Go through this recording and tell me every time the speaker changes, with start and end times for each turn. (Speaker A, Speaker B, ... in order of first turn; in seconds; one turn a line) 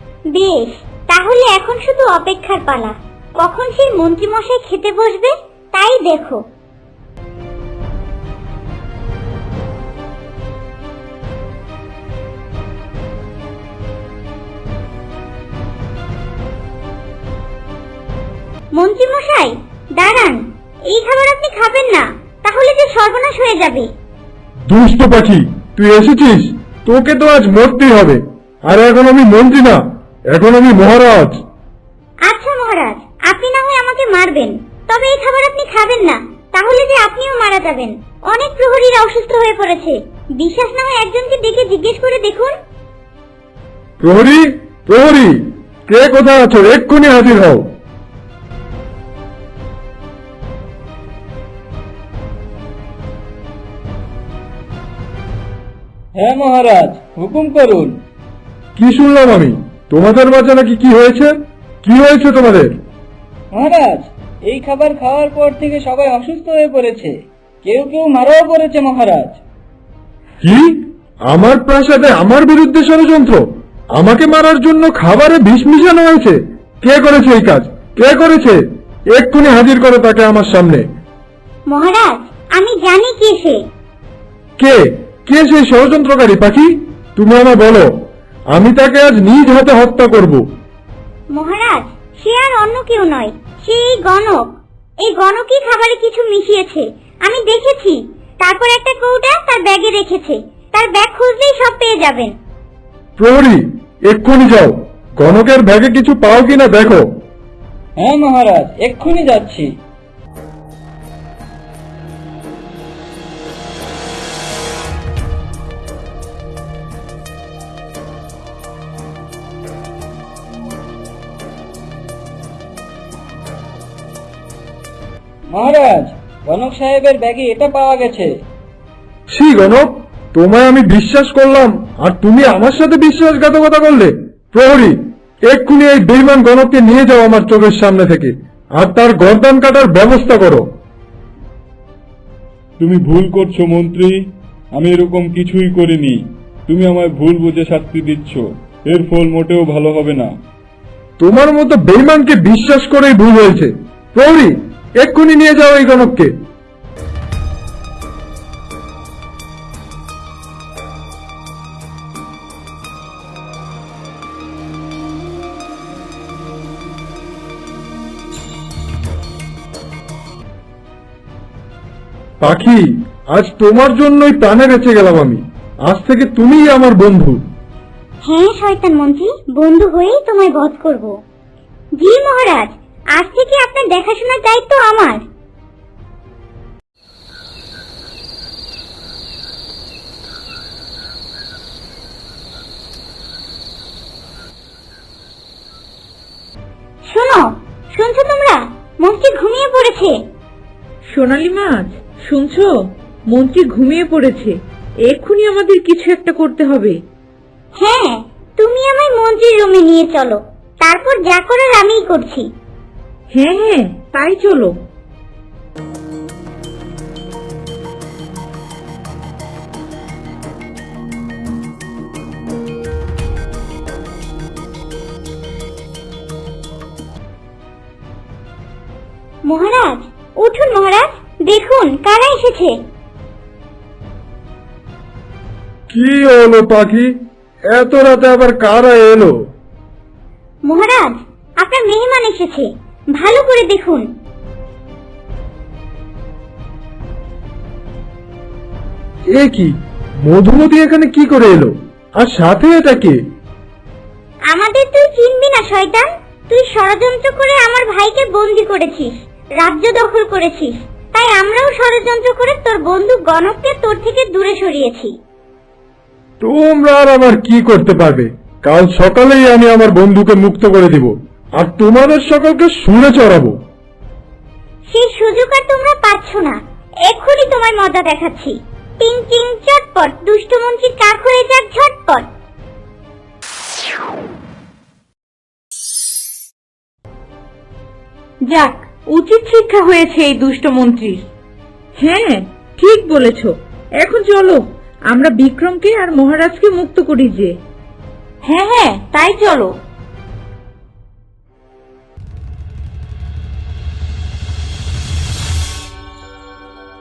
Speaker A: 0.3-6.4
Speaker A: 18.7-23.9
Speaker B: 24.7-31.4
Speaker A: 32.2-42.5
Speaker B: 44.0-47.7
Speaker C: 56.1-58.0
Speaker B: 58.8-62.7
Speaker C: 63.5-69.4
Speaker B: 70.4-73.4
Speaker B: 73.9-78.6
Speaker B: 79.1-80.8
Speaker A: 81.7-83.6
Speaker B: 84.6-87.9
Speaker B: 88.5-90.4
Speaker A: 91.3-94.4
Speaker A: 95.0-102.3
Speaker B: 103.2-107.1
Speaker C: 108.0-109.7
Speaker C: 125.5-128.3
Speaker B: 129.3-135.0
Speaker B: 135.5-140.6
Speaker D: 142.8-144.2
Speaker D: 144.7-150.3
Speaker B: 151.2-156.3
Speaker B: 172.4-177.4
Speaker A: 178.2-181.1
Speaker A: 182.0-185.2
Speaker A: 197.1-200.2
Speaker E: 201.1-202.7
Speaker E: 203.3-207.0
Speaker A: 207.8-212.5
Speaker E: 213.3-214.7
Speaker A: 229.4-232.8
Speaker B: 235.9-237.1
Speaker B: 237.7-239.3
Speaker A: 240.7-244.1
Speaker B: 249.3-253.2
Speaker A: 254.5-265.1
Speaker B: 266.4-273.5
Speaker A: 274.9-282.2
Speaker E: 288.5-291.2
Speaker E: 292.0-297.5
Speaker E: 298.4-299.7